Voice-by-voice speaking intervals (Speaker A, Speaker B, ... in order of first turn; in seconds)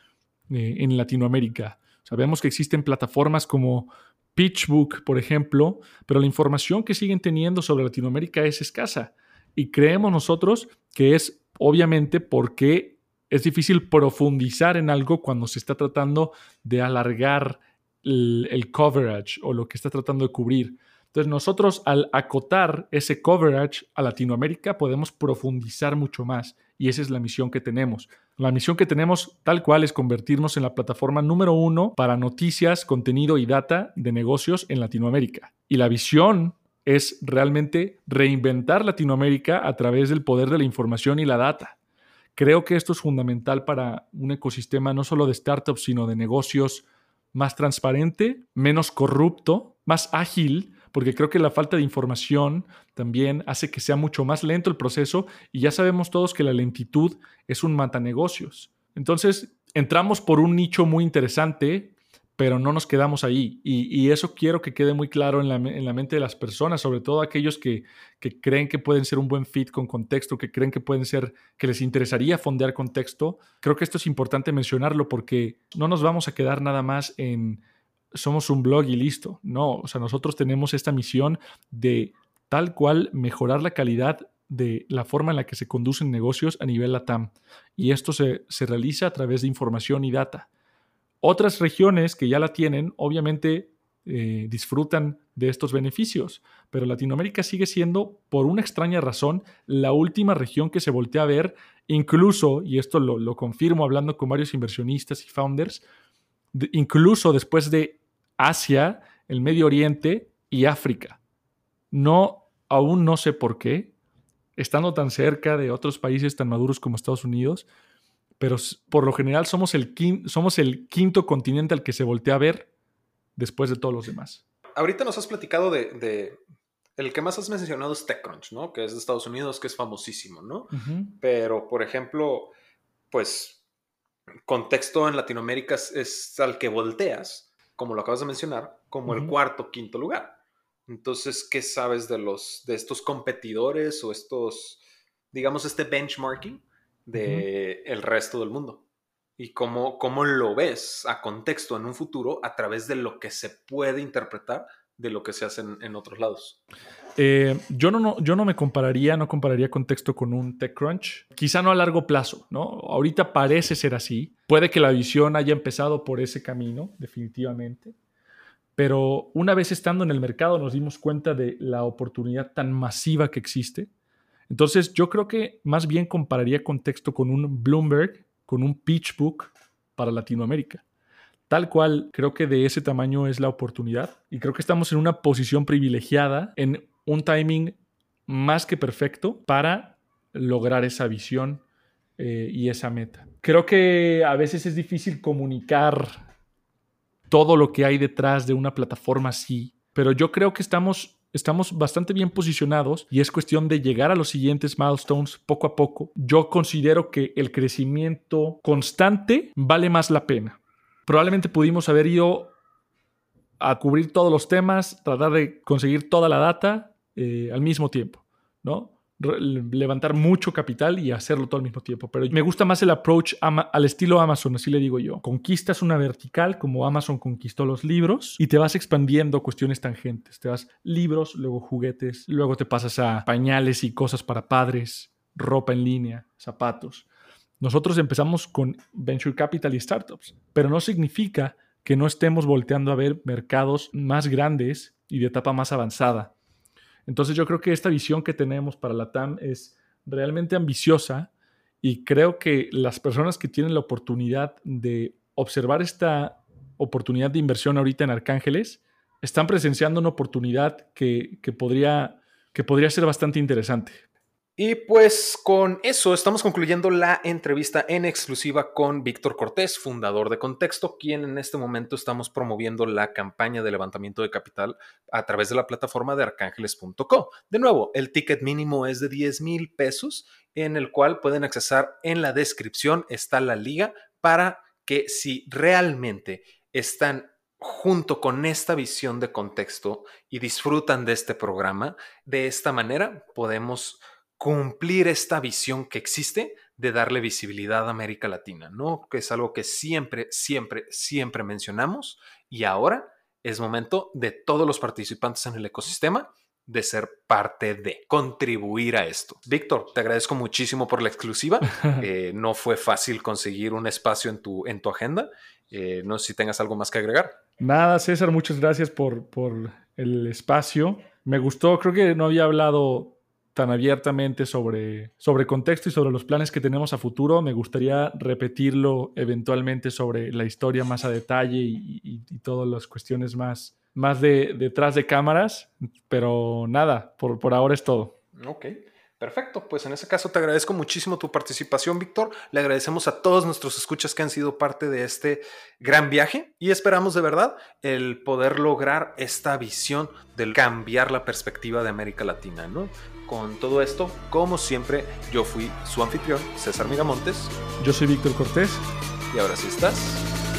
Speaker A: 0.5-41.8, 42.3-77.6, 78.1-90.5, 91.2-105.8, 106.5-111.2, 111.9-113.9, 114.6-117.7, 118.4-122.7, 123.3-124.4, 130.7-131.2, 139.1-139.3, 147.2-147.4, 157.2-167.9, 168.8-173.9, 174.5-180.8, 181.5-187.8, 188.3-191.6, 192.2-196.2, 197.3-212.5, 213.6-237.1, 237.6-246.3, 247.1-251.3, 251.8-264.0, 317.6-338.1, 357.8-358.9
Speaker B: 124.8-126.4, 127.0-132.5, 133.1-133.6, 134.4-140.3, 140.9-148.8, 149.4-156.6, 264.6-317.4, 338.4-357.5, 359.3-360.2